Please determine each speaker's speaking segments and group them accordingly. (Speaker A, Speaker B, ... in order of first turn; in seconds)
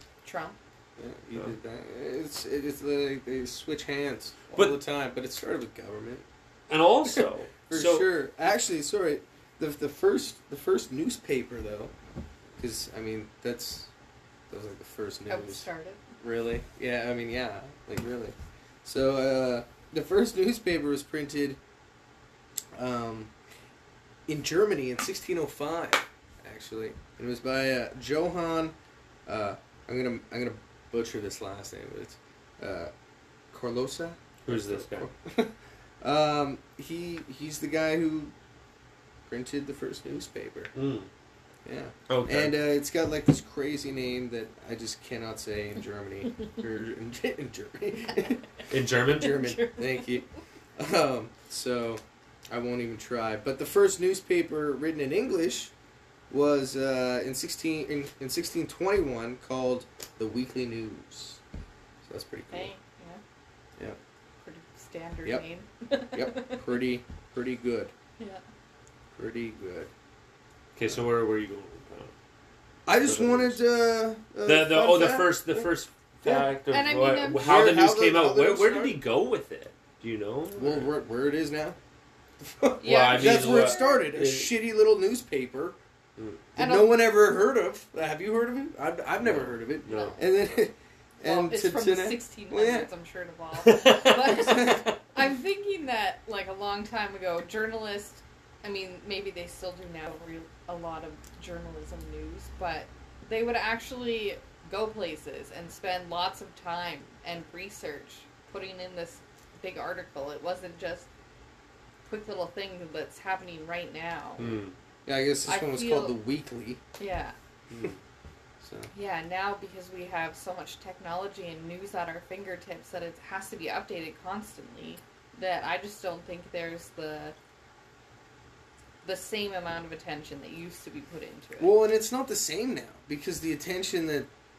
Speaker A: 0.2-0.6, 15.3-16.0, 49.2-50.2, 62.5-63.2, 64.4-66.7, 76.7-77.7, 82.8-84.0, 86.5-87.0, 89.8-90.2, 91.2-111.1, 112.1-114.5, 115.5-116.2, 117.0-117.3, 118.9-127.3, 129.0-131.7
Speaker B: 1.0-6.2, 7.0-11.9, 12.6-13.9, 14.5-15.7, 16.2-21.6, 22.7-23.3, 24.3-28.7, 29.2-32.9, 33.5-38.3, 39.3-40.7, 41.6-48.4, 49.1-50.2, 50.8-55.7, 56.3-61.4, 62.0-62.7, 66.1-67.9, 69.1-69.9, 72.8-75.7, 77.4-79.0, 80.5-81.8, 82.4-85.8, 86.5-92.9, 94.3-94.9, 115.0-116.8, 118.6-118.9, 131.6-134.3
Speaker C: 6.7-8.1, 34.5-35.1, 40.7-41.1, 42.1-42.5, 48.7-49.5, 70.8-72.1, 73.0-73.6, 74.4-80.9, 82.8-84.5, 86.2-86.4, 89.2-90.2, 93.6-94.9, 114.4-114.7, 117.7-118.0